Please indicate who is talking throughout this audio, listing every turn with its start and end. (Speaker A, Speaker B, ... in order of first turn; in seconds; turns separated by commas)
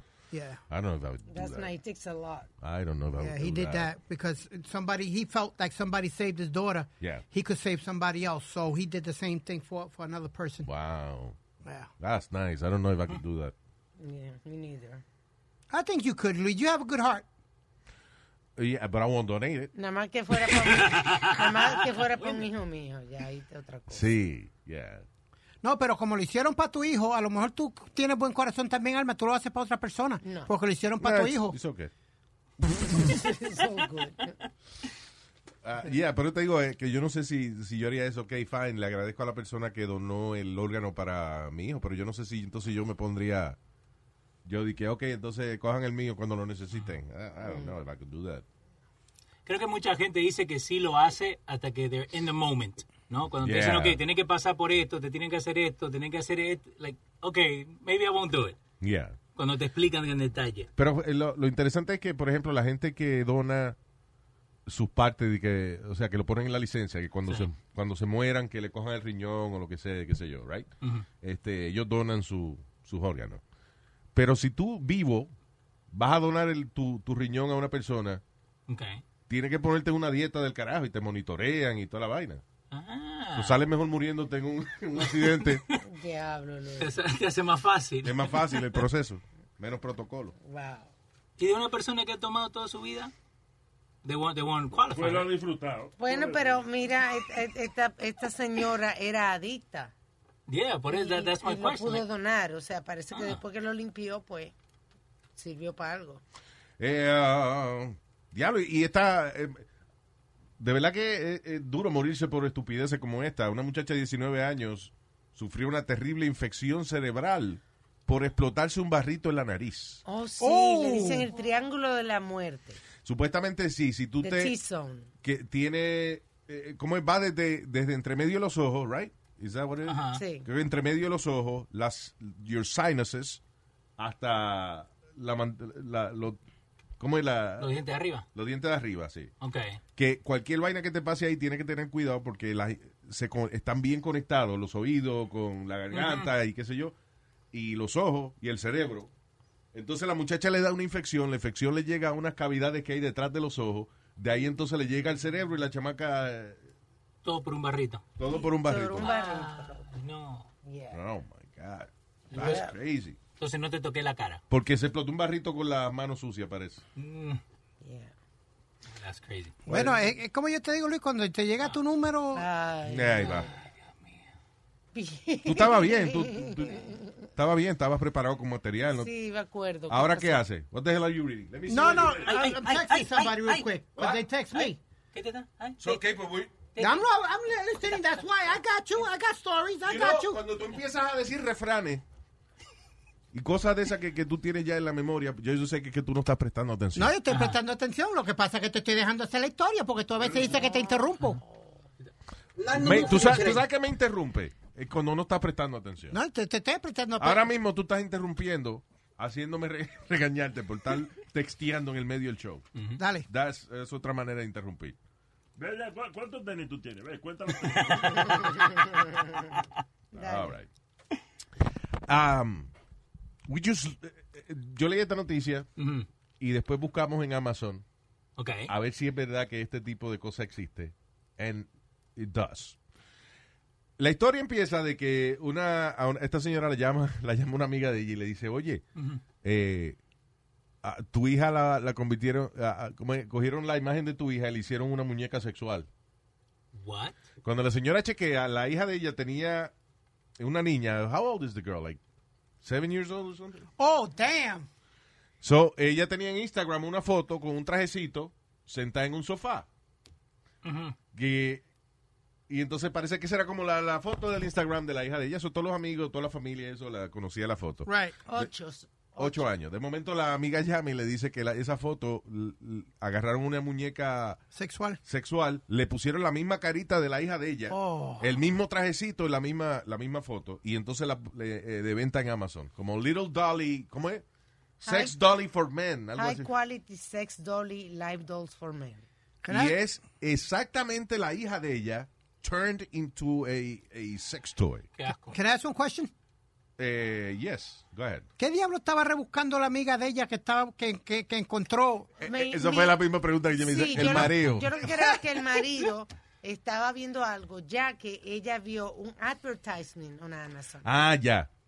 Speaker A: 0.3-0.6, Speaker B: 0.7-1.7, Speaker C: 1.3-2.5, Speaker B: 2.6-3.9, Speaker A: 3.2-10.7, Speaker B: 10.7-11.4, Speaker A: 11.6-11.9, Speaker B: 12.0-13.5, Speaker C: 14.0-15.0, Speaker A: 15.7-17.3, Speaker B: 18.6-19.7, Speaker C: 19.7-24.1, Speaker D: 20.7-21.5, Speaker B: 23.9-25.1, Speaker A: 25.6-31.6, Speaker C: 30.2-30.5, Speaker B: 31.0-31.9, Speaker C: 32.9-34.4, Speaker B: 35.6-43.6, Speaker B: 44.5-48.5, Speaker C: 47.5-47.8, Speaker D: 49.5-58.6, Speaker B: 53.4-54.0, Speaker B: 58.8-59.2, Speaker D: 59.4-60.7, Speaker B: 60.8-63.8, Speaker B: 64.7-73.4, Speaker B: 74.2-75.3, Speaker B: 75.9-78.2, Speaker D: 78.7-79.0, Speaker B: 79.3-82.4, Speaker D: 82.7-83.6, Speaker B: 83.3-85.6, Speaker D: 85.0-85.8, Speaker C: 85.8-87.0, Speaker D: 86.8-88.8, Speaker B: 88.0-90.3, Speaker C: 90.4-90.9, Speaker D: 91.4-93.1, Speaker D: 94.0-95.3, Speaker E: 94.9-96.6, Speaker C: 96.0-99.9, Speaker D: 100.5-102.0, Speaker C: 100.9-104.5, Speaker D: 103.1-103.4, Speaker C: 105.4-106.2, Speaker B: 106.8-109.7, Speaker B: 110.6-120.0, Speaker C: 120.0-122.8, Speaker A: 120.4-121.3, Speaker B: 123.0-124.5, Speaker C: 124.2-125.1, Speaker B: 125.2-133.4, Speaker D: 129.8-130.2, Speaker C: 130.1-130.5, Speaker B: 134.0-136.4, Speaker B: 137.0-137.8, Speaker D: 137.6-138.2, Speaker B: 138.3-139.3, Speaker D: 139.4-139.8, Speaker B: 140.0-146.9, Speaker D: 145.9-146.3, Speaker B: 147.5-149.1, Speaker B: 149.7-156.6, Speaker D: 157.2-158.0, Speaker B: 158.2-159.1, Speaker C: 158.2-159.9, Speaker D: 159.0-160.5, Speaker C: 160.6-161.0, Speaker B: 160.9-163.2, Speaker D: 162.3-162.6, Speaker C: 162.3-162.7, Speaker D: 163.4-164.4, Speaker B: 164.5-166.8, Speaker D: 167.0-167.4, Speaker C: 167.8-168.1, Speaker D: 168.9-169.6, Speaker A: 169.7-172.5, Speaker B: 169.7-170.0, Speaker C: 172.3-173.5, Speaker B: 172.9-173.5, Speaker C: 174.9-177.3, Speaker B: 175.5-179.1, Speaker C: 178.9-180.4, Speaker B: 179.9-182.3, Speaker A: 181.7-184.8, Speaker D: 182.2-183.7, Speaker B: 184.0-184.2, Speaker D: 184.5-186.0, Speaker B: 185.8-186.5, Speaker D: 186.7-187.1, Speaker A: 186.8-190.4, Speaker B: 189.8-192.0, Speaker B: 193.3-197.1, Speaker A: 196.9-201.4, Speaker D: 197.3-197.6, Speaker C: 200.6-201.7, Speaker A: 202.6-203.6, Speaker B: 202.7-206.2, Speaker D: 202.8-203.4, Speaker A: 206.1-207.5, Speaker B: 207.2-212.7, Speaker D: 212.8-213.0, Speaker A: 213.0-213.3, Speaker B: 213.3-215.0, Speaker E: 215.6-218.9, Speaker C: 220.1-220.6, Speaker B: 220.1-220.7, Speaker B: 222.1-222.7, Speaker B: 223.5-225.7, Speaker D: 225.8-226.1, Speaker B: 226.4-227.8, Speaker D: 228.4-228.7, Speaker B: 228.7-232.8, Speaker B: 234.0-238.8, Speaker D: 239.0-239.2, Speaker B: 239.4-240.0, Speaker B: 240.8-245.9, Speaker D: 246.7-247.2, Speaker B: 247.4-249.7, Speaker B: 250.4-252.0, Speaker B: 252.6-253.7, Speaker A: 253.8-254.7, Speaker B: 255.4-259.7, Speaker D: 260.6-261.0, Speaker B: 261.1-261.6, Speaker B: 262.5-268.5, Speaker A: 267.9-268.2, Speaker C: 268.3-269.5, Speaker B: 269.2-274.4, Speaker A: 274.5-275.0, Speaker B: 275.1-284.2, Speaker A: 277.7-278.4, Speaker C: 284.8-285.2, Speaker B: 284.8-286.5, Speaker C: 286.1-289.0, Speaker A: 289.4-289.8, Speaker B: 289.5-294.9, Speaker D: 295.0-295.4, Speaker A: 295.3-296.1, Speaker B: 296.8-298.3, Speaker A: 298.4-302.1, Speaker B: 302.2-304.9, Speaker C: 302.2-303.0, Speaker C: 303.5-310.9, Speaker D: 303.9-304.3, Speaker B: 310.8-311.5